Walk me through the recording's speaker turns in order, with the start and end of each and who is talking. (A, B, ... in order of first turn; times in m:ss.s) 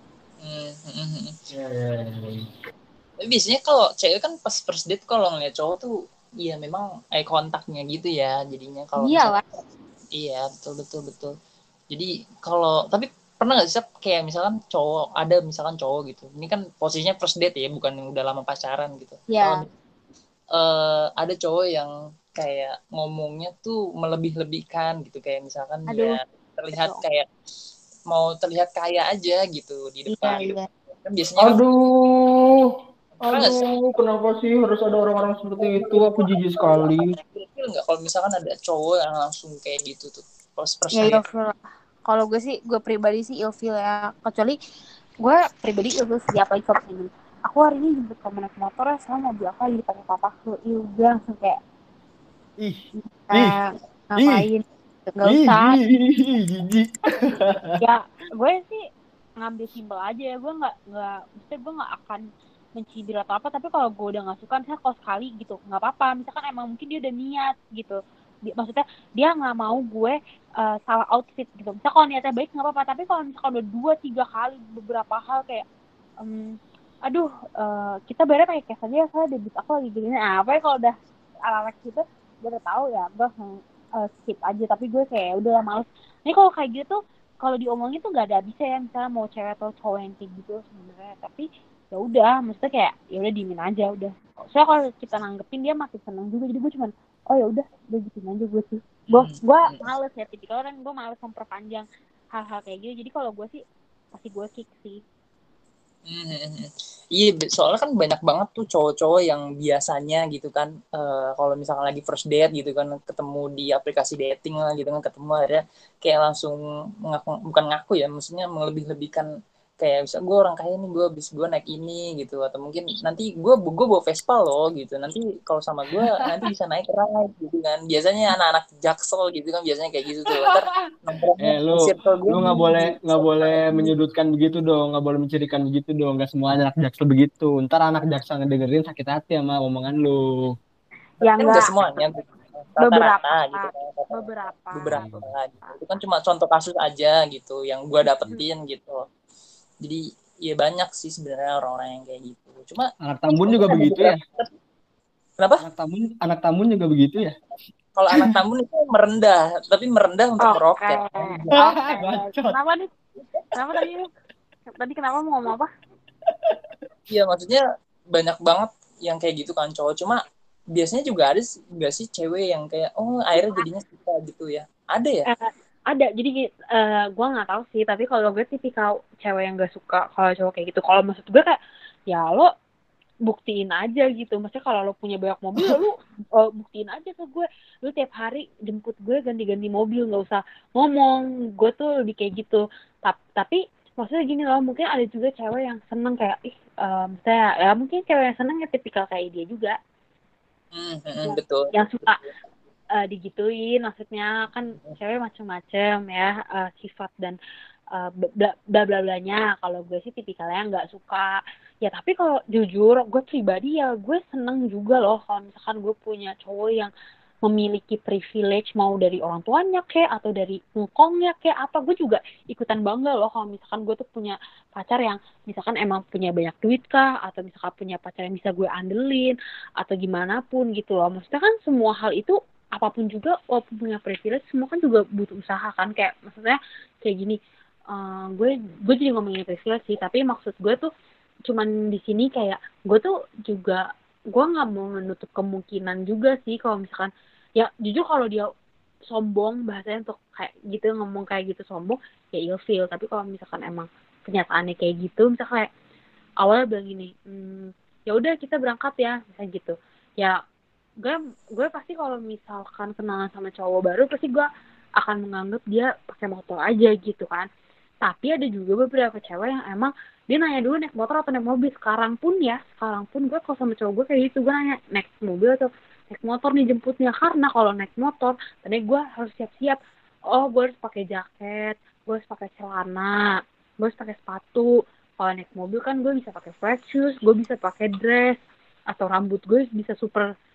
0:00.4-0:01.4 A
0:01.5-0:02.5 B
0:03.2-0:09.4 A
0:09.0-0:09.4 C
0:10.1-0:11.3 A
0:11.9-0:19.7 A
0:19.3-0:19.6 C
0:20.5-0:27.3 A
0:25.9-0:26.2 C
0:26.7-0:27.0 C
0:28.1-0:31.6 A
0:30.1-0:30.7 C
0:31.4-0:32.7 B
0:33.2-0:37.2 B
0:33.2-0:33.7 A
0:35.7-0:41.2 A
0:41.0-0:44.6 C
0:45.2-0:51.6 C
0:52.6-0:53.6 B
0:53.0-0:55.8 C
0:54.2-0:54.4 B
0:55.2-0:57.7 B
0:57.8-0:58.8 C
0:59.4-1:02.2 C
1:02.8-1:15.6 C
1:16.2-1:16.6 C
1:17.1-1:43.6 C
1:39.2-1:39.9 A
1:44.1-1:45.0 C
1:46.1-1:59.3 A
1:59.8-2:12.5 A
2:10.3-2:10.6 B
2:11.4-2:20.6 B
2:12.4-2:13.0 C
2:13.1-2:13.7 A
2:21.2-2:21.7 C
2:21.3-2:29.1 A
2:22.8-2:25.1 C
2:24.9-2:25.3 B
2:29.8-2:32.9 A
2:33.0-2:34.2 B
2:33.5-2:34.5 A
2:35.4-2:35.6 A
2:35.6-2:37.4 B
2:38.0-2:41.6 A
2:40.4-2:42.9 C
2:41.5-2:42.6 B
2:43.5-2:44.1 C
2:44.8-2:45.7 C
2:46.3-2:46.6 B
2:47.1-2:47.6 A
2:48.1-2:50.2 A
2:50.8-2:55.3 A
2:53.4-2:53.6 C
2:55.3-3:01.6 C
3:02.1-3:02.5 C
3:03.3-3:19.7 C
3:20.7-3:21.7 A
3:21.2-3:22.2 C
3:23.0-3:27.4 C
3:28.0-3:36.9 C
3:37.4-3:57.4 C
3:57.9-4:00.9 C
4:01.5-4:03.8 C
4:04.3-4:08.5 C
4:09.1-4:15.7 C
4:16.4-4:20.4 C
4:21.0-4:24.5 C
4:25.0-4:27.5 C
4:28.0-4:39.8 C
4:40.3-4:43.3 C
4:43.8-4:44.7 C
4:45.2-4:48.4 C
4:48.9-4:50.3 C